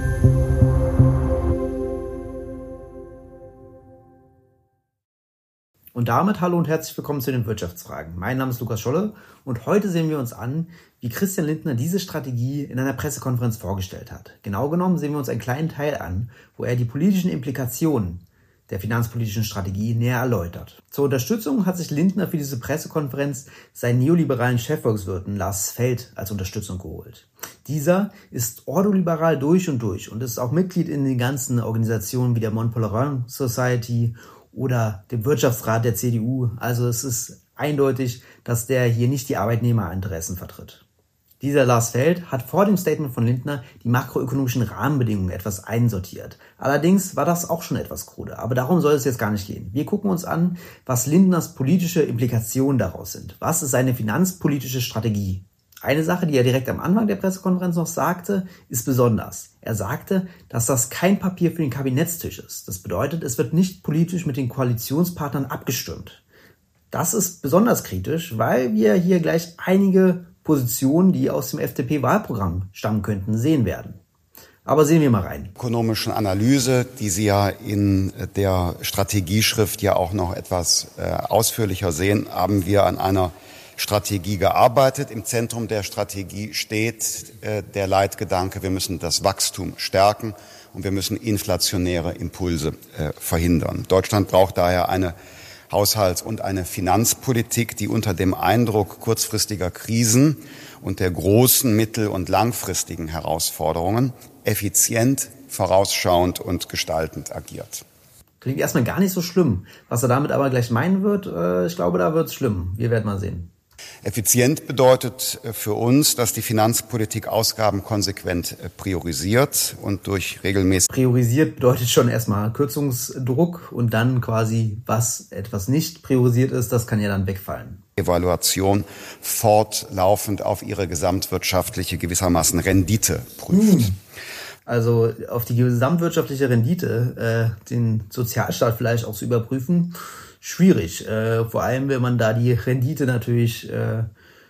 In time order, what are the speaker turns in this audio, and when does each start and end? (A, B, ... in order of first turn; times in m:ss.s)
0:05.9-0:40.8 A
0:41.4-1:06.2 A
1:06.9-1:14.0 A
1:14.6-1:15.5 A
1:15.6-1:35.1 B
1:35.7-1:47.8 B
1:48.4-1:53.5 A
1:54.0-2:00.9 B
2:00.9-2:07.8 A
2:08.0-2:13.9 B
2:13.5-2:13.9 A
2:14.6-2:24.1 A